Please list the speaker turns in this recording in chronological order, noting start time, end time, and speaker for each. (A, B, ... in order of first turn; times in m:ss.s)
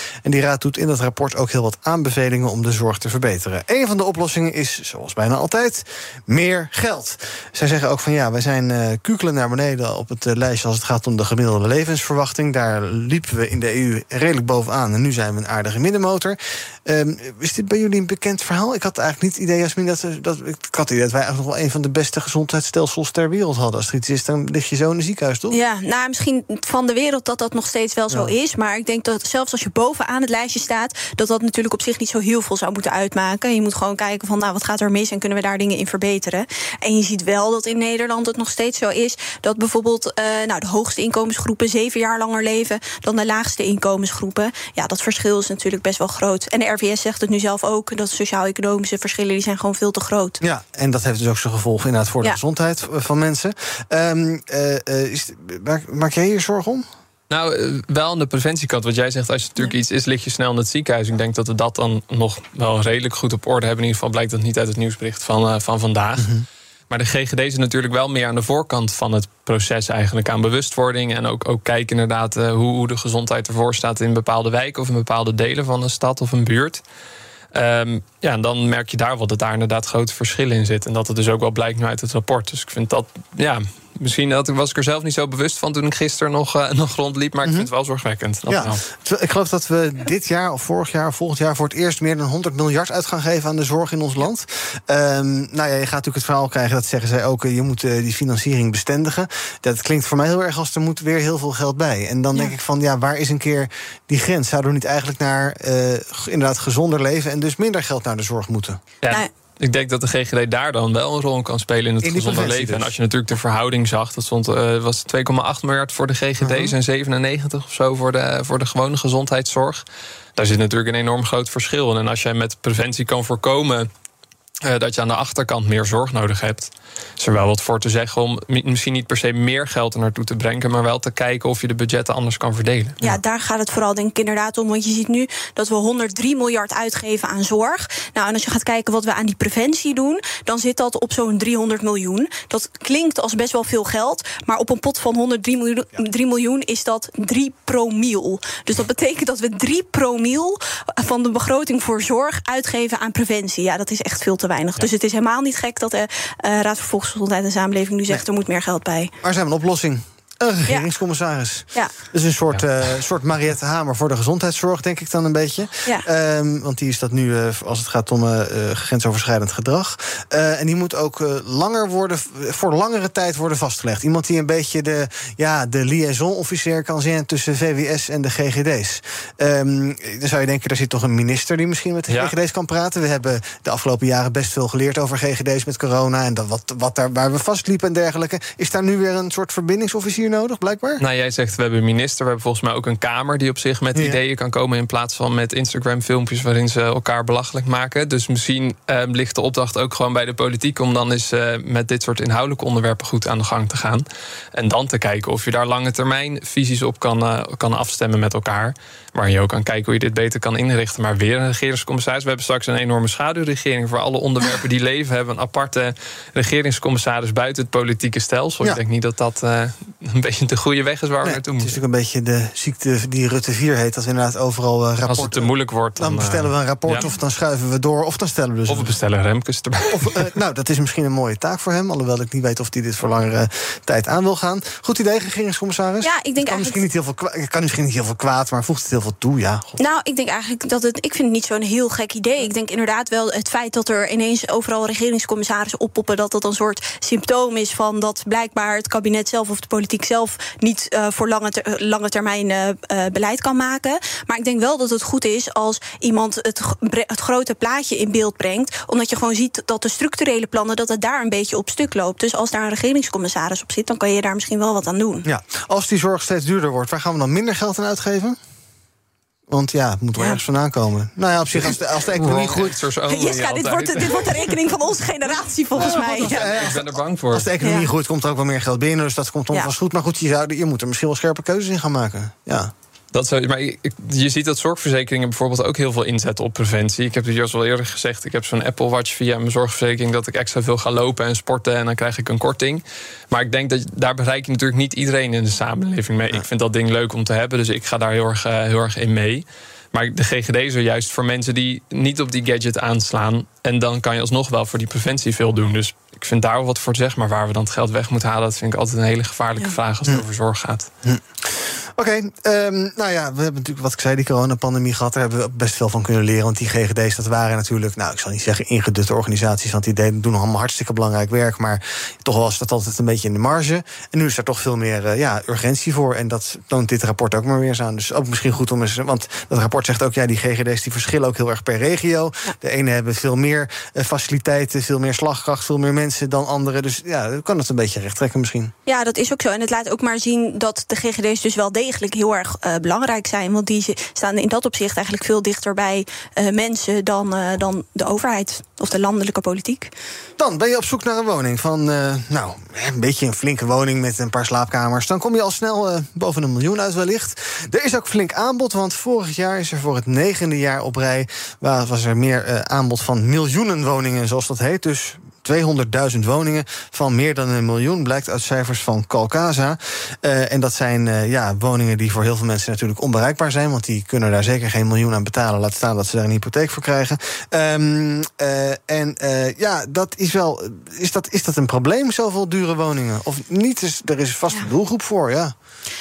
0:00.2-0:25.6 A
0:25.5-0:50.4 B
0:50.4-0:56.8 A
0:57.3-1:06.3 C
1:06.2-1:06.4 A
1:06.9-1:16.8 C
1:17.5-1:28.8 C
1:28.5-1:48.8 A
1:49.0-1:59.8 C
1:52.0-1:52.9 A
1:56.4-1:56.7 A
2:00.4-2:03.9 C
2:04.6-2:13.0 C
2:13.0-2:39.1 B
2:39.2-3:11.0 A
3:02.1-3:02.3 C
3:11.0-3:24.0 C
3:13.9-3:14.2 A
3:24.5-3:41.8 C
3:41.2-3:48.9 A
3:45.1-3:47.0 C
3:48.7-3:50.3 C
3:49.9-3:59.8 A
3:56.0-3:56.8 B
3:59.8-4:25.2 B
4:25.2-4:28.4 A
4:29.5-4:32.8 A
4:31.5-4:34.5 C
4:33.1-4:36.7 B
4:35.7-4:42.7 A
4:35.8-4:37.5 C
4:37.6-4:37.9 B
4:43.1-5:10.9 C
5:11.0-5:38.7 A
5:38.8-5:49.9 B
5:50.4-6:25.5 A